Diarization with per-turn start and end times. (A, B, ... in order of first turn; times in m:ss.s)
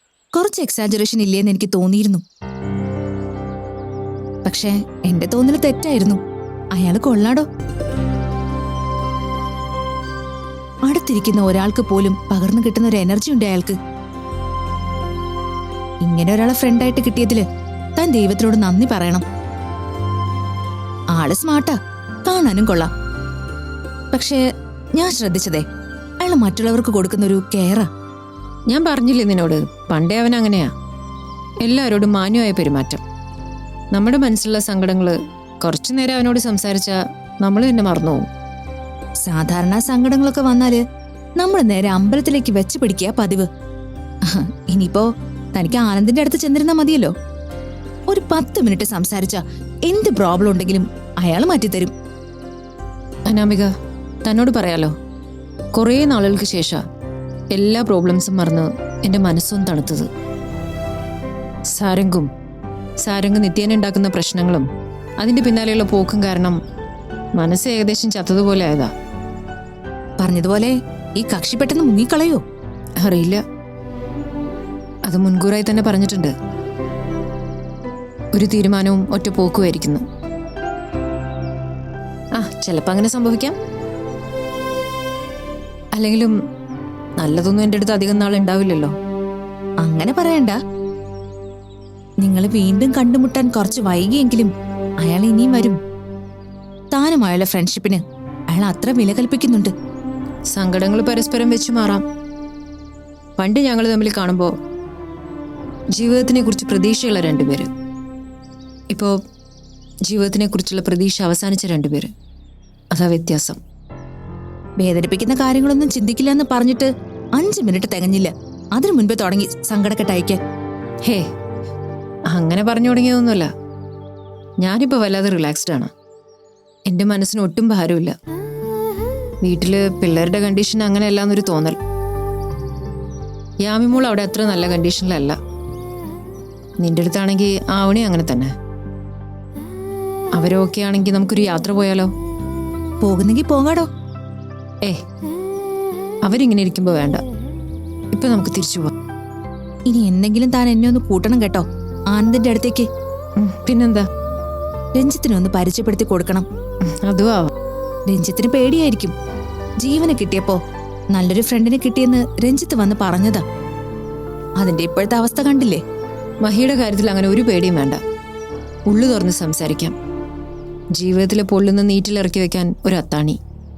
0:00.3-0:02.2 A
0:04.4-0:06.2 A
0:06.7-0:07.4 A
0:10.9-0:13.8 A
0:16.0-0:17.4 A
0:18.0-0:19.2 A
0:21.1-0:22.9 A
0:24.1-0:24.4 A
0:25.0-0:25.6 A
0:26.2-0:27.9 A
0:28.7-0:30.7 B
0:31.6-0:33.0 B
0:33.9-0:38.3 B
0:39.2-0:40.8 A
0:41.4-0:43.5 A
0:44.3-0:45.0 A
0:45.5-0:47.1 A
0:48.1-0:51.9 A
0:53.3-0:53.7 B
0:54.2-0:54.9 B
0:55.7-0:56.8 B
0:57.5-1:00.1 B
1:01.7-1:02.3 B
1:03.0-1:04.7 B
1:05.2-1:06.6 B
1:07.4-1:08.9 B
1:10.2-1:12.4 A
1:13.0-1:13.4 B
1:15.0-1:16.3 B
1:18.3-1:20.0 B
1:22.4-1:23.6 B
1:25.9-1:26.4 B
1:27.2-1:28.9 B
1:29.8-1:30.6 A
1:32.2-1:34.5 A
1:35.0-1:35.8 A
1:36.9-1:39.7 A
1:40.5-1:42.0 B
1:43.4-1:44.5 B
1:45.9-1:47.7 B
1:50.1-1:52.1 B
1:52.9-1:53.6 B
1:54.8-2:00.4 A
2:02.3-2:03.5 B
2:04.6-2:05.9 B
2:06.9-2:08.2 B
2:09.4-2:11.8 B
2:13.6-2:15.4 B
2:16.8-2:18.5 B
2:20.3-2:22.1 B
2:23.0-2:23.9 A
2:26.2-2:27.2 B
2:28.1-2:28.9 B
2:29.9-2:32.8 A
2:33.4-2:34.1 B
2:34.9-2:36.4 A
2:36.9-2:37.5 B
2:38.1-2:39.1 A
2:39.8-2:40.6 A
2:41.1-2:43.4 A
2:44.6-2:45.8 A
2:46.4-2:48.0 B
2:48.9-2:49.9 B
2:51.0-2:53.4 B